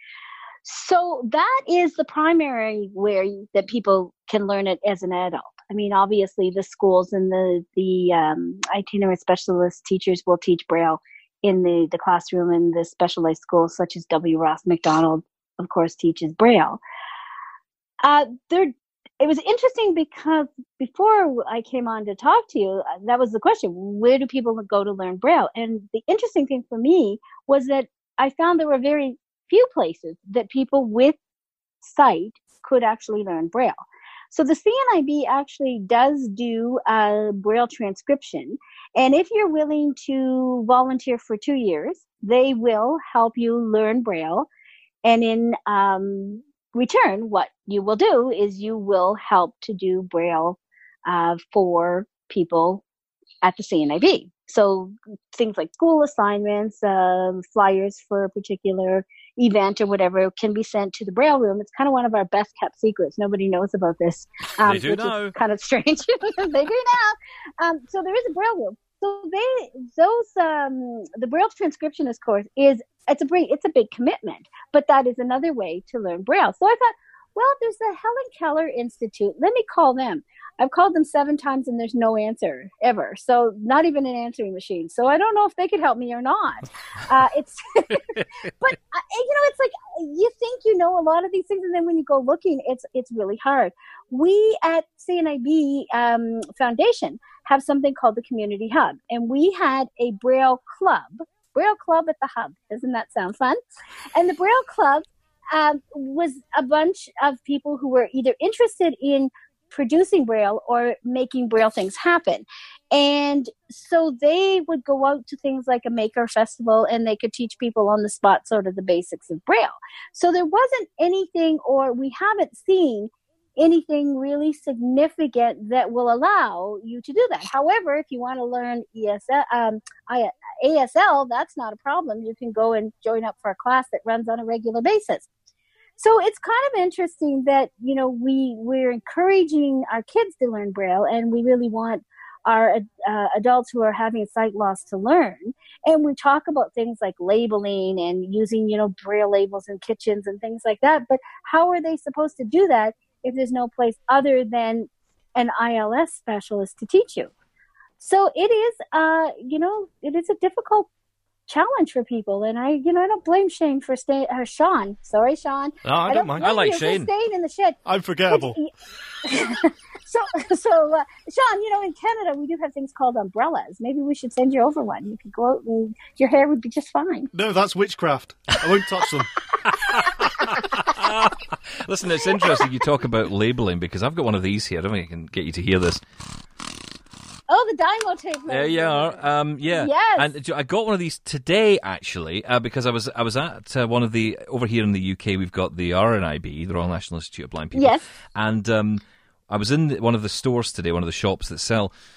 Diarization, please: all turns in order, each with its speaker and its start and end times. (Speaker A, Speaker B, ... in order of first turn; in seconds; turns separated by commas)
Speaker A: 0.6-16.8, Speaker A: 18.0-31.2, Speaker A: 31.8-33.8, Speaker A: 34.3-44.5, Speaker A: 45.0-52.8, Speaker A: 53.4-103.6, Speaker B: 64.6-65.3, Speaker A: 104.1-135.3, Speaker A: 136.0-157.3, Speaker A: 158.0-160.9, Speaker A: 161.5-168.7, Speaker C: 165.8-166.5, Speaker B: 166.4-167.1, Speaker C: 167.8-168.6, Speaker A: 169.2-177.3, Speaker C: 177.3-179.3, Speaker B: 179.7-186.0, Speaker A: 187.5-190.3, Speaker B: 188.5-201.9, Speaker A: 197.7-198.0